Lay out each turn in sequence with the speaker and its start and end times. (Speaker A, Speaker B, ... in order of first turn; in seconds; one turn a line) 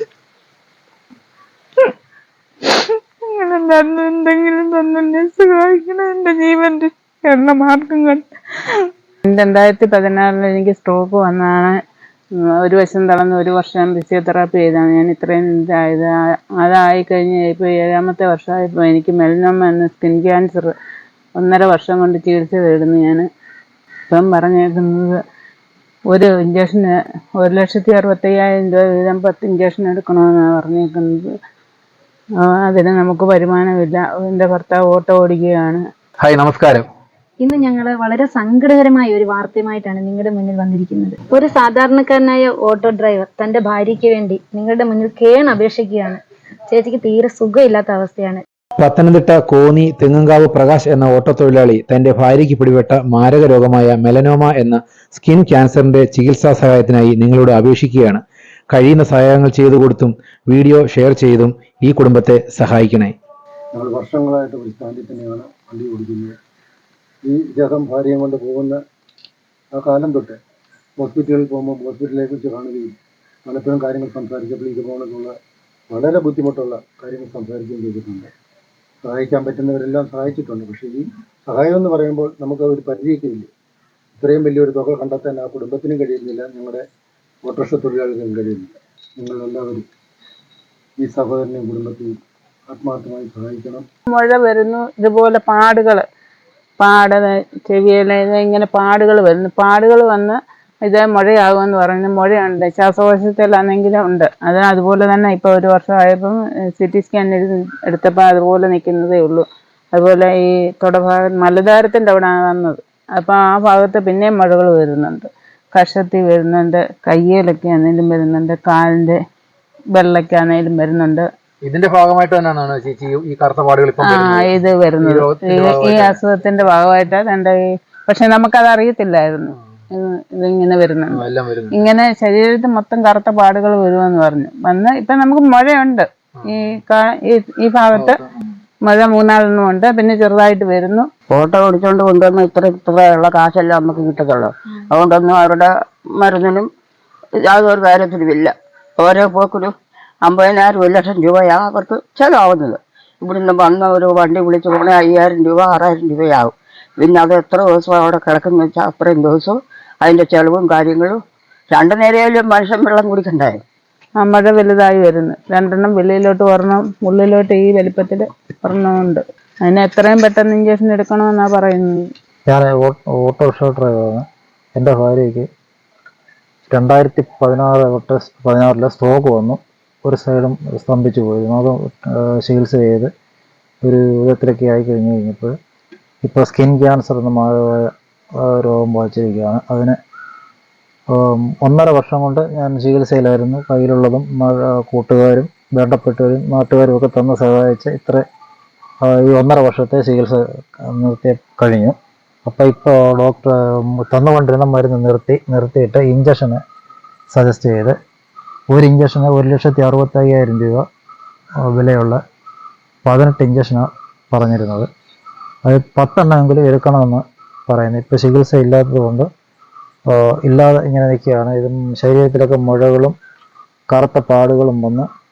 Speaker A: 2.7-8.2
Speaker A: 9.2-11.8
Speaker A: 12.4-20.7
Speaker A: 21.4-23.2
Speaker A: 24.1-25.2
Speaker A: 26.1-31.3
Speaker A: 32.4-35.8
Speaker B: 36.2-36.9
Speaker C: 37.4-46.2
Speaker C: 46.7-48.4
Speaker B: 48.8-63.1
Speaker D: 63.7-66.3
Speaker D: 67.2-68.8
Speaker D: 69.7-70.4
Speaker D: 71.0-75.3
Speaker D: 75.9-78.3
Speaker D: 79.0-83.5
Speaker D: 84.2-86.8
Speaker D: 87.4-89.8
Speaker D: 91.0-92.1
Speaker D: 92.7-93.8
Speaker A: 94.1-96.0
Speaker A: 96.8-119.2
Speaker A: 119.9-121.2
Speaker B: 121.6-126.2
Speaker A: 124.0-131.2
Speaker B: 131.1-131.9
Speaker A: 131.7-138.2
Speaker B: 137.9-138.3
Speaker A: 138.8-141.1
Speaker E: 141.3-146.7
Speaker E: 147.4-161.2
Speaker E: 161.7-163.6
Speaker A: 164.2-172.1
Speaker F: 172.5-174.2
Speaker F: 174.8-175.5
Speaker F: 176.7-183.1
Speaker F: 183.8-185.5
Speaker F: 186.2-187.9
Speaker F: 188.4-189.9
Speaker F: 191.1-198.2
Speaker F: 199.0-201.9
Speaker F: 202.4-206.6
Speaker F: 207.3-207.9
Speaker F: 208.7-210.8
Speaker F: 211.7-212.2
Speaker F: 213.1-214.9
Speaker F: 215.7-219.3
Speaker F: 220.1-223.2
Speaker F: 223.9-225.1